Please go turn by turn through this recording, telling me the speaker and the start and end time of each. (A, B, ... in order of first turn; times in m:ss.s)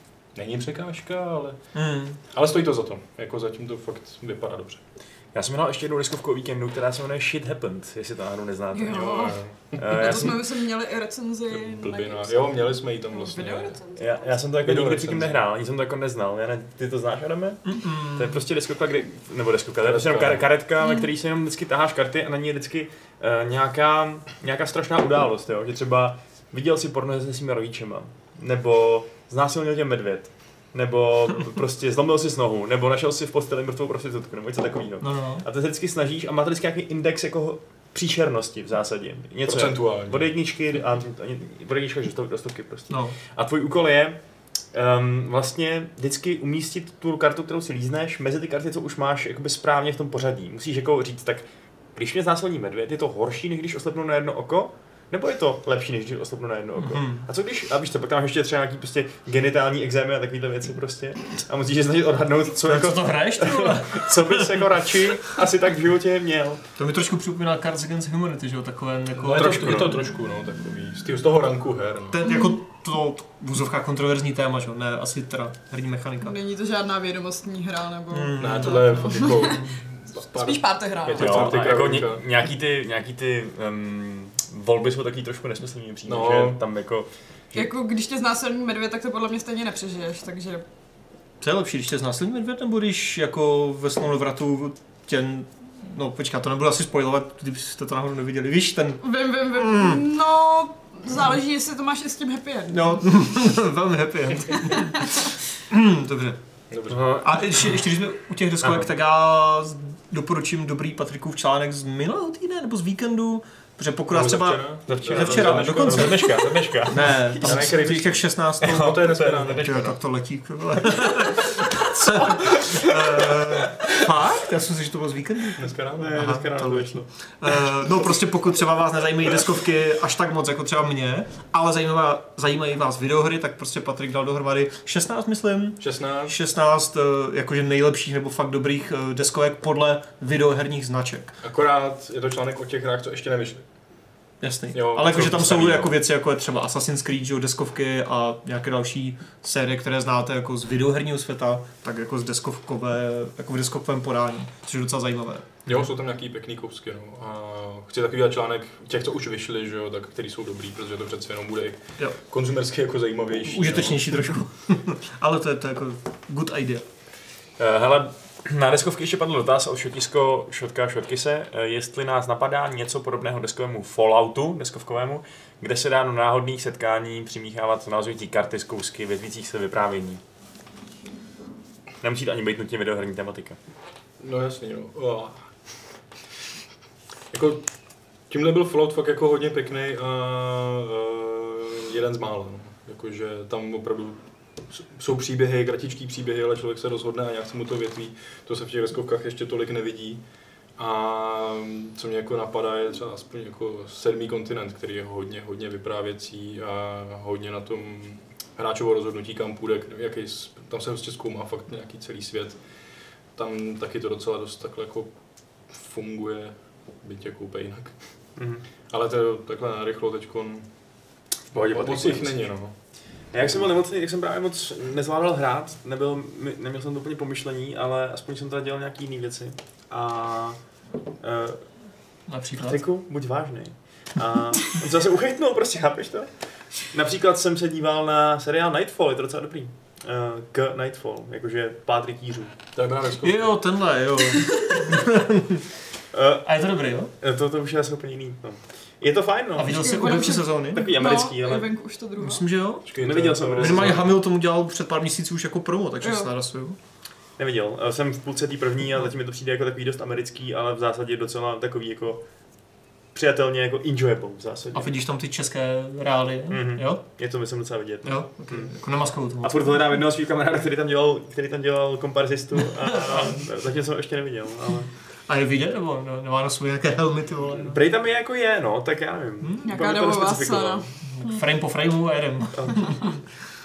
0:00.3-0:01.6 A
0:01.7-0:02.2 B
0:02.3-0:04.8 A
0:05.3-0:10.4 C
0:08.7-0:14.2 D
0:08.9-0:10.2 A
0:11.5-0:13.8 A
0:13.9-0:44.2 C
0:14.6-0:15.4 A
0:17.6-0:18.4 B
0:19.8-0:20.4 A
0:35.0-0:35.4 B
0:39.4-0:40.3 A
0:42.9-0:43.2 B
0:44.7-1:06.6 C
0:56.8-0:57.2 B
1:02.6-1:04.6 B
1:06.8-1:10.0 B
1:09.2-1:12.2 A
1:09.3-1:10.0 C
1:12.1-1:16.3 B
1:12.3-1:12.5 D
1:16.2-1:19.7 D
1:18.1-1:19.6 B
1:18.4-1:22.3 A
1:20.2-1:21.5 D
1:21.1-1:27.7 C
1:26.1-1:26.6 A
1:27.5-1:30.6 D
1:31.4-1:40.0 B
1:39.0-1:43.2 D
1:42.7-1:46.4 B
1:44.6-1:45.1 D
1:46.7-1:47.2 A
1:46.9-1:47.3 C
1:47.2-2:21.4 B
1:48.6-1:48.9 C
1:54.1-1:56.3 A
1:54.9-1:57.7 C
1:57.4-1:59.9 A
1:58.6-1:59.9 C
2:02.6-2:03.3 C
2:05.6-2:06.2 A
2:06.0-2:07.1 C
2:15.8-2:16.3 A
2:21.4-2:23.6 A
2:24.4-2:35.6 B
2:24.7-2:25.8 A
2:25.1-2:25.9 C
2:35.7-2:44.4 A
2:43.4-2:46.8 B
2:47.6-3:00.2 C
3:02.0-3:03.6 C
3:04.2-3:05.5 A
3:07.3-3:07.7 A
3:08.3-3:20.2 A
3:20.8-3:32.6 A
3:33.3-3:35.1 A
3:35.7-3:38.0 A
3:38.4-3:38.6 C
3:38.9-3:40.7 A
3:41.5-3:42.4 C
3:41.7-3:42.7 A
3:43.3-3:50.6 C
3:51.2-3:51.7 C
3:52.3-3:52.8 B
3:52.6-3:56.3 C
3:56.8-4:02.5 C
4:02.7-4:03.5 A
4:03.2-4:05.6 B
4:06.1-4:06.5 C
4:06.4-4:07.1 B
4:07.2-4:10.2 C
4:09.6-4:10.9 B
4:09.7-4:12.5 D
4:10.7-4:11.7 C
4:12.2-4:16.8 B
4:12.8-4:14.1 A
4:13.0-4:14.1 C
4:16.0-4:16.3 D
4:17.4-4:22.2 C
4:23.1-4:24.9 C
4:24.7-4:27.0 B
4:26.5-4:28.7 C
4:28.0-4:29.7 B
4:29.4-4:34.9 C
4:35.3-4:37.8 B
4:37.6-4:40.9 C
4:39.6-4:41.4 D
4:41.1-4:43.2 B
4:42.5-4:42.9 C